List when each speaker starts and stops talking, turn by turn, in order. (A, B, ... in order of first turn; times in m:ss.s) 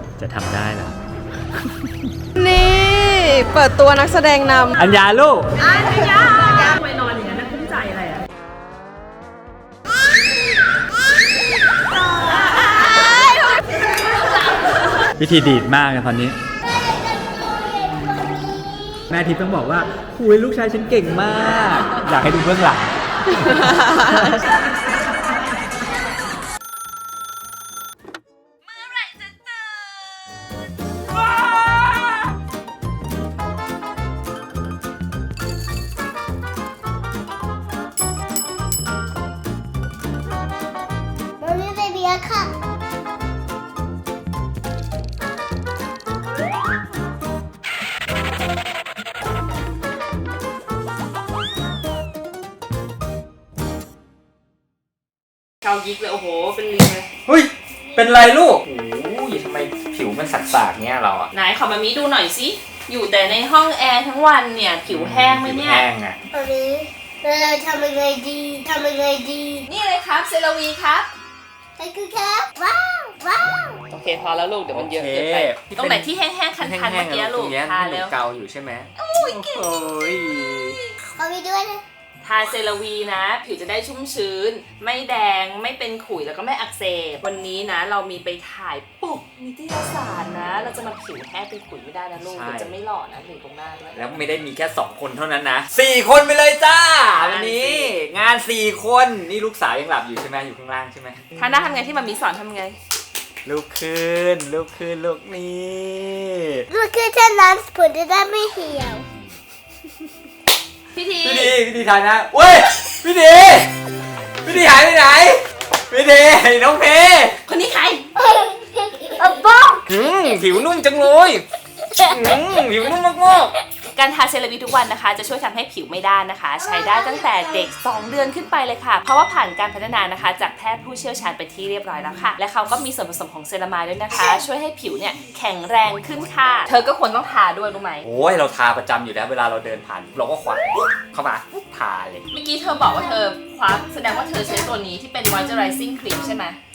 0:00.2-0:01.0 A
0:02.4-0:04.8 B
0:04.8-0:05.5 A
0:05.6-0:08.2 C
0:12.5-0:13.2 C
0:15.2-0:16.4 A
0:19.1-0:24.4 A
0:23.5-0:24.3 B
0:41.4-0:42.5 D
0:55.6-0:57.1 C
0:57.3-1:01.3 A
1:01.3-1:05.9 C
1:04.9-1:06.2 A
1:06.3-1:09.6 D
1:09.6-1:11.1 C
1:11.8-1:13.8 D
1:13.9-1:18.1 C
1:14.7-1:20.8 A
1:19.0-1:19.6 C
1:21.2-1:21.8 D
1:22.2-1:34.2 C
1:32.2-1:32.8 A
1:33.9-1:41.2 A
1:37.2-1:38.0 C
1:41.4-1:42.8 C
1:43.4-1:46.7 A
1:46.7-1:49.0 D
1:50.9-1:51.6 C
1:51.2-1:53.7 A
1:54.4-1:57.4 A
1:57.5-1:58.1 C
1:58.2-1:59.8 D
1:59.9-2:01.4 A
2:02.0-2:03.6 A
2:03.9-2:18.1 C
2:06.8-2:07.7 D
2:18.0-2:22.3 A
2:22.3-2:26.6 C